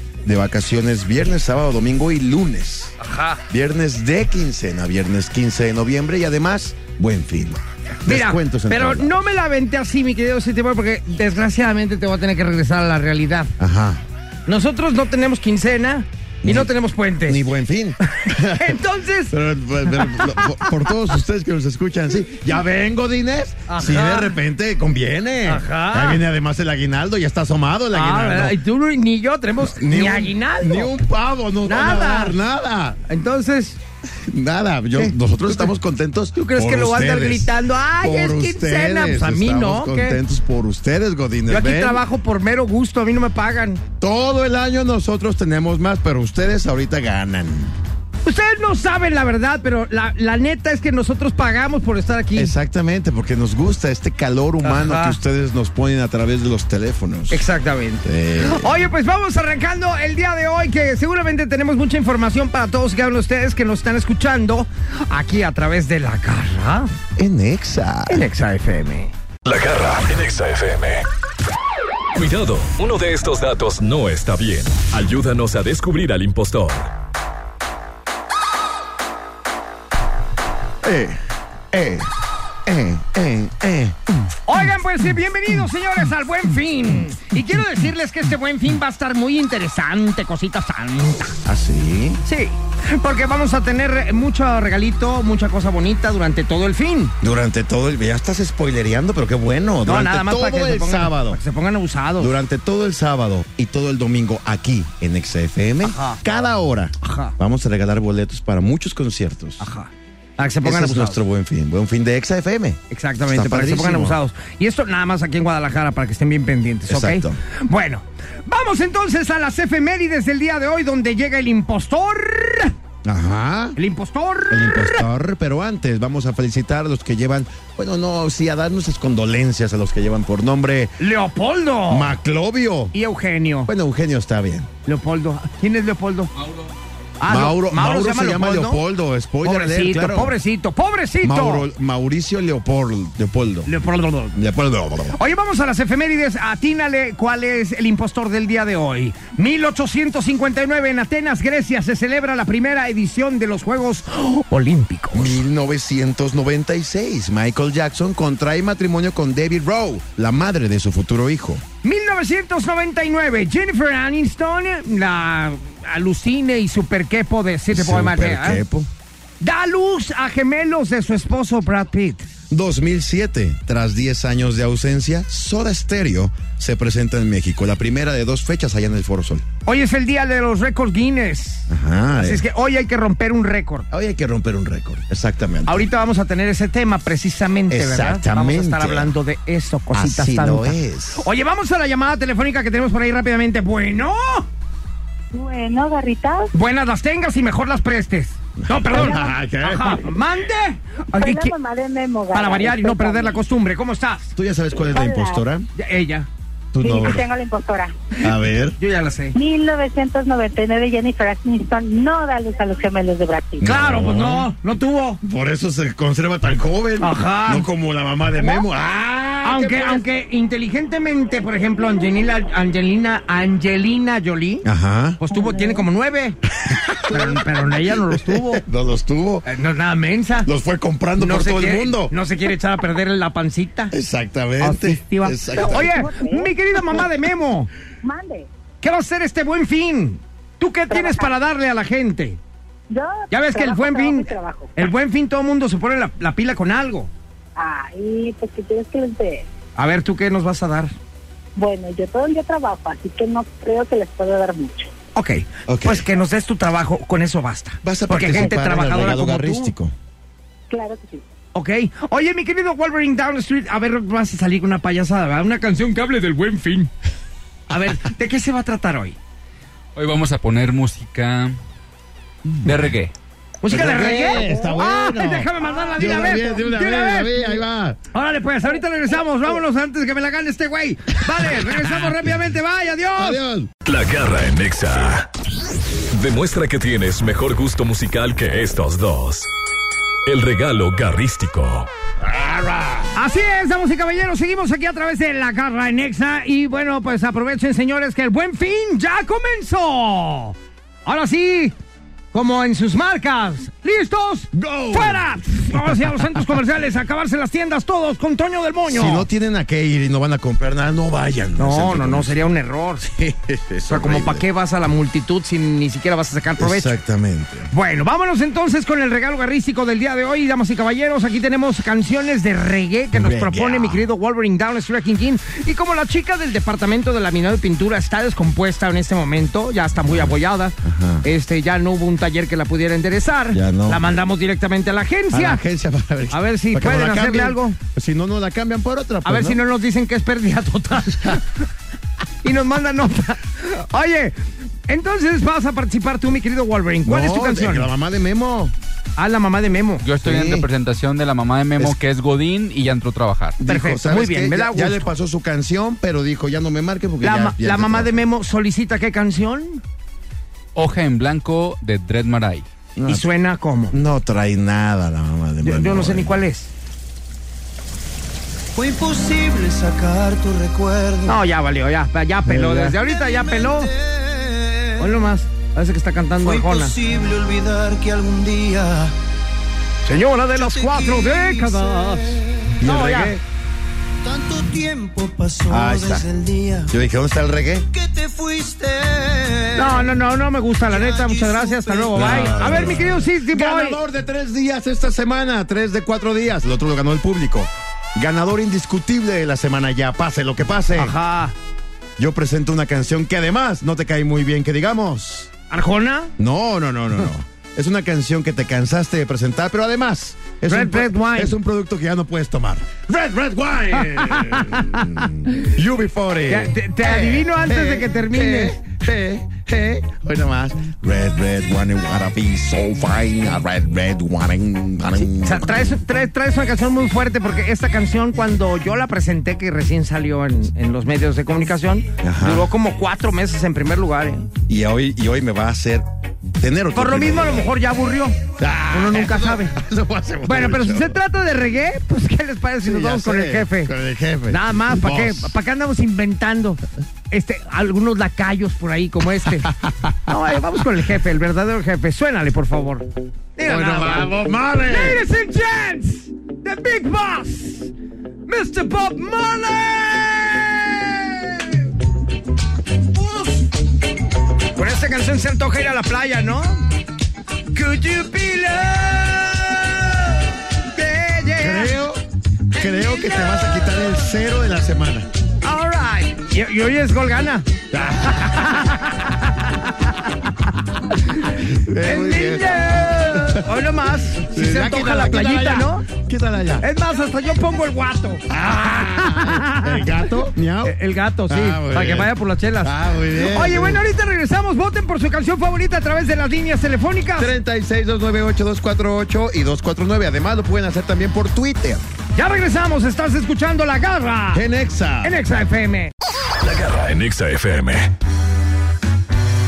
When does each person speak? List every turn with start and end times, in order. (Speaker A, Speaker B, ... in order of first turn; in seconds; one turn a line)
Speaker A: 0.2-3.0
Speaker B: 3.0-3.4
Speaker A: 3.5-9.1
Speaker B: 8.1-13.5
Speaker A: 13.6-14.0
Speaker B: 14.5-17.5
Speaker A: 16.4-16.7
Speaker A: 17.2-28.6
Speaker B: 18.3-19.4
Speaker B: 19.9-20.6
Speaker B: 23.7-24.3
Speaker B: 25.5-26.2
Speaker B: 27.9-30.9
Speaker A: 29.6-33.0
Speaker B: 31.6-32.4
Speaker B: 33.1-33.8
Speaker A: 34.2-42.0
Speaker B: 35.0-35.7
Speaker B: 36.4-40.2
Speaker B: 41.5-43.8
Speaker A: 44.0-47.8
Speaker B: 48.2-52.5
Speaker A: 52.4-57.5
Speaker B: 54.6-55.2
Speaker B: 57.3-66.9
Speaker A: 58.0-58.9
Speaker A: 67.2-68.3
Speaker B: 68.1-69.1
Speaker C: 69.5-71.0
Speaker C: 72.2-76.9
Speaker A: 80.8-81.2
Speaker A: 81.7-82.1
Speaker A: 82.7-84.1
Speaker B: 84.5-91.3
Speaker A: 91.5-92.2
Speaker B: 92.2-97.1
Speaker A: 97.2-101.4
Speaker B: 99.8-102.3
Speaker A: 102.2-109.7
Speaker B: 105.8-106.2
Speaker B: 107.0-107.3
Speaker B: 109.6-111.2
Speaker A: 110.6-114.2
Speaker B: 112.9-122.7
Speaker A: 116.9-117.4
Speaker A: 123.0-123.8
Speaker B: 123.8-125.0
Speaker A: 124.5-130.9
Speaker B: 131.0-132.2
Speaker A: 131.9-132.9
Speaker B: 132.9-133.7
Speaker A: 133.7-134.7
Speaker B: 134.9-136.3
Speaker B: 137.2-138.8
Speaker A: 137.3-140.4
Speaker B: 139.4-141.7
Speaker A: 141.2-143.7
Speaker B: 143.7-144.4
Speaker A: 144.3-145.2
Speaker B: 145.2-155.4
Speaker A: 155.1-161.6
Speaker B: 161.8-168.6
Speaker A: 167.7-168.9
Speaker B: 169.4-172.3
Speaker A: 172.5-179.4
Speaker B: 179.7-183.9
Speaker A: 181.7-182.4
Speaker A: 183.9-185.9
Speaker B: 185.7-194.5
Speaker A: 187.7-189.1
Speaker A: 189.9-191.3
Speaker D: 195.3-196.5
Speaker B: 196.5-201.5
Speaker A: 198.6-200.1
Speaker D: 198.9-199.3
Speaker D: 201.2-203.4
Speaker B: 202.3-204.3
Speaker A: 204.3-205.7
Speaker D: 204.8-205.4
Speaker B: 205.8-206.3
Speaker A: 206.7-207.3
Speaker D: 206.8-207.9
Speaker A: 208.2-208.8
Speaker B: 208.8-209.4
Speaker D: 209.3-213.7
Speaker A: 213.6-214.5
Speaker B: 213.6-215.2
Speaker A: 215.2-220.1
Speaker B: 217.0-217.7
Speaker B: 219.4-224.7
Speaker A: 224.6-225.2
Speaker B: 225.2-226.4
Speaker A: 226.7-227.4
Speaker B: 227.1-228.6
Speaker A: 228.1-229.5
Speaker B: 229.4-230.5
Speaker A: 230.4-232.1
Speaker B: 231.2-233.9
Speaker A: 233.9-236.0
Speaker B: 234.6-237.7
Speaker D: 235.6-236.5
Speaker D: 238.0-238.5
Speaker B: 238.8-242.4
Speaker D: 240.9-241.3
Speaker D: 242.9-244.7
Speaker B: 243.3-247.1
Speaker D: 247.6-249.4
Speaker B: 249.8-250.9
Speaker D: 251.6-254.9
Speaker B: 255.2-259.7
Speaker A: 255.7-256.1
Speaker A: 257.8-259.9
Speaker D: 260.7-261.2
Speaker B: 261.5-266.9
Speaker B: 267.7-269.2
Speaker E: 269.9-271.6
Speaker A: 272.5-272.8
Speaker E: 272.6-273.1
Speaker B: 273.6-277.6
Speaker A: 273.7-278.0
Speaker B: 278.1-283.4
Speaker A: 283.2-283.7
Speaker C: 283.9-285.3
Speaker C: 286.1-289.5
Speaker C: 290.3-291.9
Speaker A: 292.2-293.1
Speaker B: 293.1-301.8
Speaker B: 302.3-309.3
Speaker A: 304.5-306.2
Speaker A: 308.9-312.5
Speaker B: 311.6-313.1
Speaker A: 313.0-314.4
Speaker B: 313.9-317.0
Speaker A: 316.6-317.7
Speaker B: 317.7-335.6
Speaker A: 323.1-324.1
Speaker A: 330.0-331.3
Speaker A: 333.5-334.0
Speaker A: 335.3-339.6
Speaker B: 336.3-337.8
Speaker B: 339.2-341.6
Speaker B: 342.4-347.9
Speaker A: 347.0-348.7
Speaker B: 349.2-350.1
Speaker E: 350.0-353.6
Speaker A: 350.2-350.7
Speaker A: 353.6-358.2
Speaker B: 353.7-355.1
Speaker B: 357.2-359.8
Speaker E: 360.8-362.7
Speaker A: 363.0-363.3
Speaker B: 363.1-364.0
Speaker A: 363.9-366.4
Speaker B: 365.6-366.7
Speaker F: 368.8-371.4
Speaker B: 371.3-373.9
Speaker A: 372.5-372.9
Speaker F: 373.2-375.0
Speaker B: 375.0-376.9
Speaker F: 376.4-379.1
Speaker B: 380.1-383.4
Speaker F: 380.6-382.7
Speaker A: 382.8-383.4
Speaker F: 384.2-386.9
Speaker A: 385.7-386.3
Speaker A: 386.9-387.9
Speaker F: 387.9-390.1
Speaker B: 389.8-394.0
Speaker F: 390.8-393.2
Speaker A: 392.1-401.1
Speaker B: 400.9-401.6
Speaker A: 402.2-405.5
Speaker B: 405.7-406.3
Speaker A: 406.4-426.0
Speaker B: 410.7-411.6
Speaker B: 413.9-415.7
Speaker B: 416.5-418.8
Speaker B: 425.3-434.5
Speaker A: 432.2-432.7
Speaker A: 434.7-436.1
Speaker A: 436.6-437.7
Speaker B: 436.9-438.4
Speaker A: 438.6-441.2
Speaker B: 438.9-439.7
Speaker B: 440.4-443.9
Speaker A: 442.8-445.5
Speaker B: 444.5-449.7
Speaker A: 449.6-450.4
Speaker B: 450.3-457.9
Speaker A: 453.6-455.2
Speaker B: 458.5-461.9
Speaker B: 463.1-463.7
Speaker B: 464.7-466.8
Speaker B: 467.7-472.0
Speaker A: 471.6-475.3
Speaker B: 472.7-474.1
Speaker B: 475.6-477.7
Speaker A: 477.9-478.6
Speaker B: 478.3-480.5
Speaker B: 481.1-486.1
Speaker A: 481.5-483.7
Speaker A: 484.4-486.9
Speaker B: 486.8-490.3
Speaker A: 488.5-494.0
Speaker B: 490.8-497.5
Speaker A: 497.4-502.0
Speaker B: 502.3-504.6
Speaker A: 504.5-505.4
Speaker B: 505.2-506.1
Speaker C: 506.6-508.1